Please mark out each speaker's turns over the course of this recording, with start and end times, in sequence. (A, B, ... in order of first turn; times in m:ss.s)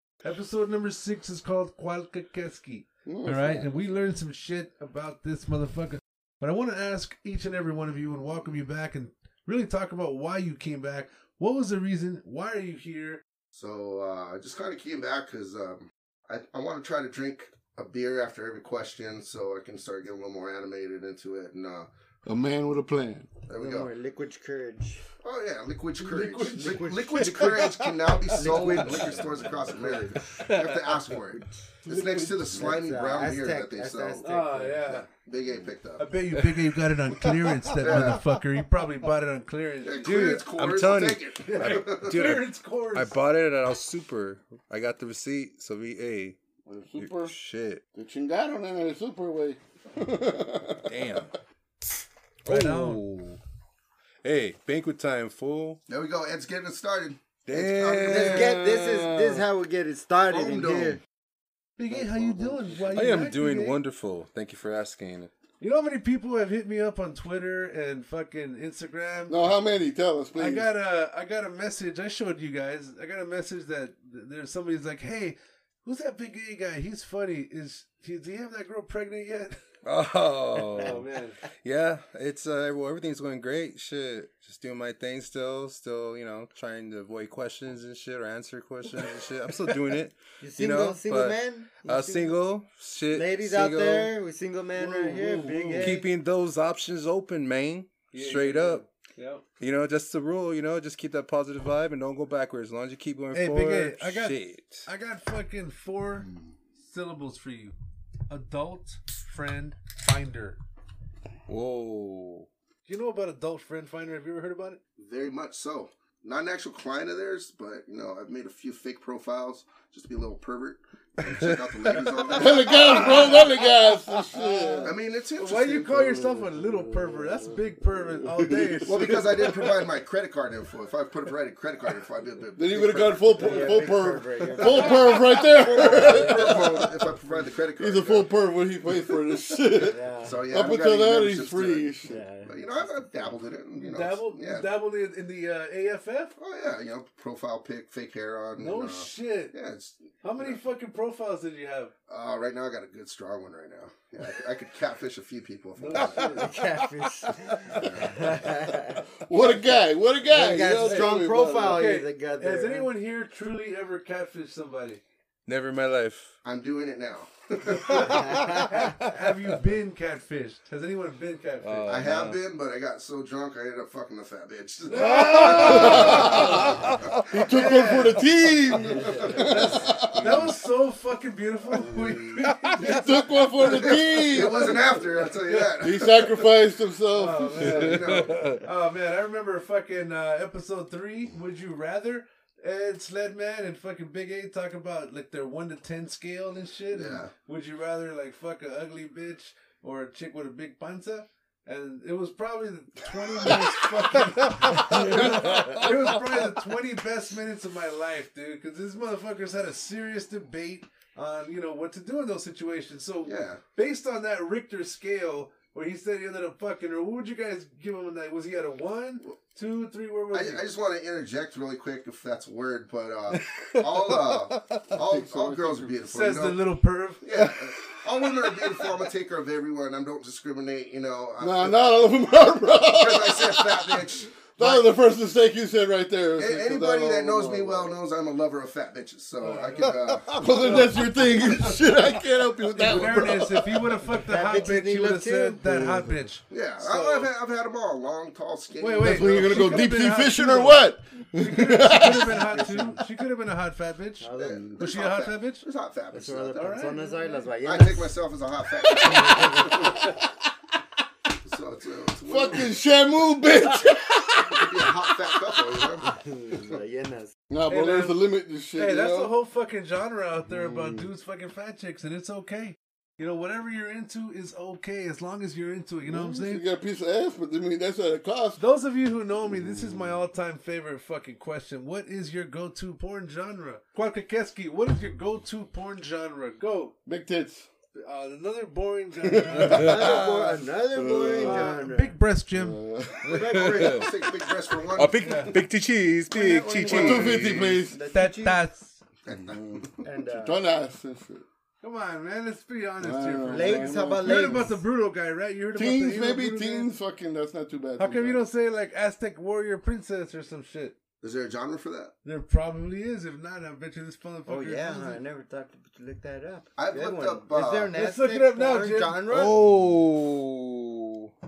0:00.2-0:13.2 A
0:03.0-0:03.7 B
0:13.5-0:21.9 C
0:22.2-0:23.3 B
0:23.5-0:23.9 C
0:23.6-0:25.0 D
0:25.2-0:34.4 C
0:26.0-0:27.7 A
0:26.6-0:27.6 D
0:28.3-0:29.3 D
0:30.4-0:30.9 E
0:31.8-0:32.7 A
0:32.5-0:35.0 D
0:34.2-0:35.1 A
0:35.1-0:36.1 C
0:36.0-0:40.5 A
0:37.8-0:38.2 C
0:39.8-0:42.4 C
0:40.0-0:46.4 E
0:41.4-0:43.1 A
0:46.6-0:47.3 B
0:47.0-0:47.8 E
0:47.9-0:51.2 B
0:50.9-0:51.3 E
0:52.4-0:53.0 A
0:52.4-0:53.4 E
0:54.2-0:55.8 E
0:55.9-0:58.7 C
0:57.4-0:59.4 E
0:58.0-1:01.0 D
1:00.3-1:01.0 C
1:01.8-1:03.8 A
1:01.9-1:03.1 B
1:02.9-1:05.3 E
1:05.6-1:09.5 A
1:09.3-1:10.7 B
1:10.3-1:19.6 A
1:19.8-1:21.0 E
1:20.8-1:21.4 A
1:21.6-1:34.1 E
1:30.4-1:32.4 D
1:33.1-1:36.1 D
1:34.8-1:36.0 A
1:35.8-1:38.8 E
1:38.1-1:39.4 A
1:39.6-1:44.9 E
1:43.3-1:47.7 A
1:48.3-1:50.6 A
1:51.5-1:52.5 E
1:52.8-1:54.8 A
1:55.0-2:03.4 C
2:02.3-2:05.0 B
2:02.6-2:03.6 A
2:04.4-2:09.6 A
2:04.8-2:05.9 C
2:05.7-2:09.5 B
2:08.8-2:13.9 C
2:12.5-2:17.0 B
2:13.4-2:16.8 D
2:14.6-2:18.3 C
2:17.8-2:22.2 B
2:19.8-2:20.7 D
2:20.2-2:24.7 C
2:22.0-2:22.5 D
2:23.9-2:26.3 A
2:26.4-2:30.6 C
2:28.6-2:29.5 A
2:30.2-2:31.9 A
2:32.1-2:36.5 C
2:35.8-2:36.5 A
2:36.3-2:39.0 D
2:37.7-2:38.4 C
2:39.2-2:41.9 B
2:40.3-2:42.9 D
2:40.8-2:45.0 A
2:45.4-2:46.4 E
2:46.4-2:48.4 C
2:47.8-2:52.0 A
2:48.0-2:48.9 D
2:48.1-2:49.1 E
2:51.6-2:52.4 E
2:51.8-2:57.2 C
2:54.9-2:56.5 A
2:54.9-2:57.3 E
2:55.5-2:56.7 B
2:57.3-3:00.5 B
2:57.4-2:58.2 A
2:59.0-2:59.4 C
2:59.0-2:59.4 D
2:59.3-3:03.9 A
3:00.1-3:00.5 C
3:01.8-3:02.4 C
3:02.4-3:03.0 E
3:02.6-3:08.0 B
3:03.6-3:06.5 C
3:05.4-3:05.7 A
3:07.1-3:40.6 A
3:07.6-3:08.6 C
3:08.2-3:08.6 E
3:16.9-3:17.3 C
3:24.7-3:25.9 E
3:24.8-3:26.1 B
3:33.2-3:33.6 C
3:40.3-3:46.7 C
3:43.6-3:44.8 E
3:44.9-3:46.0 B
3:46.0-3:47.2 A
3:47.2-3:51.8 C
3:51.4-3:58.0 B
3:52.8-3:54.9 C
3:56.4-4:01.7 C
3:59.4-4:00.0 A
4:00.1-4:04.0 B
4:00.6-4:00.9 A
4:02.7-4:07.3 A
4:04.1-4:05.8 D
4:05.7-4:06.0 B
4:06.5-4:10.0 C
4:08.8-4:15.6 A
4:09.0-4:12.4 B
4:12.3-4:13.0 D
4:14.2-4:15.0 D
4:14.4-4:16.9 C
4:16.1-4:18.2 D
4:16.5-4:17.5 A
4:17.6-4:20.0 C
4:18.8-4:20.3 B
4:21.4-4:22.8 C
4:22.2-4:25.9 B
4:24.4-4:26.2 C
4:26.1-4:27.3 D
4:27.5-4:29.3 B
4:27.7-4:36.6 A
4:30.5-4:31.1 B
4:36.0-4:38.6 B
4:38.6-4:46.9 A
4:39.4-4:40.2 B
4:47.0-4:47.7 B
4:47.9-4:50.0 A
4:49.2-4:50.2 B
4:49.7-4:52.2 D
4:49.7-4:50.6 E
4:50.9-4:51.7 B
4:51.4-4:52.8 A
4:52.5-4:53.7 B
4:53.2-4:54.1 D
4:53.3-4:54.0 E
4:53.6-4:55.6 C
4:54.9-4:57.8 E
4:55.2-4:55.6 A
4:56.3-4:57.8 C
4:56.9-4:58.0 B
4:57.8-4:58.6 D
4:58.1-4:59.0 A
4:59.2-5:00.0 C
4:59.3-5:01.4 B
5:00.0-5:00.6 D
5:01.8-5:06.9 A
5:03.0-5:04.7 B
5:03.5-5:04.8 D
5:05.7-5:08.4 B
5:08.0-5:11.0 A
5:11.2-5:12.1 C
5:12.2-5:15.2 A
5:14.5-5:19.6 D
5:16.8-5:17.9 C
5:17.9-5:19.3 A
5:19.3-5:21.3 E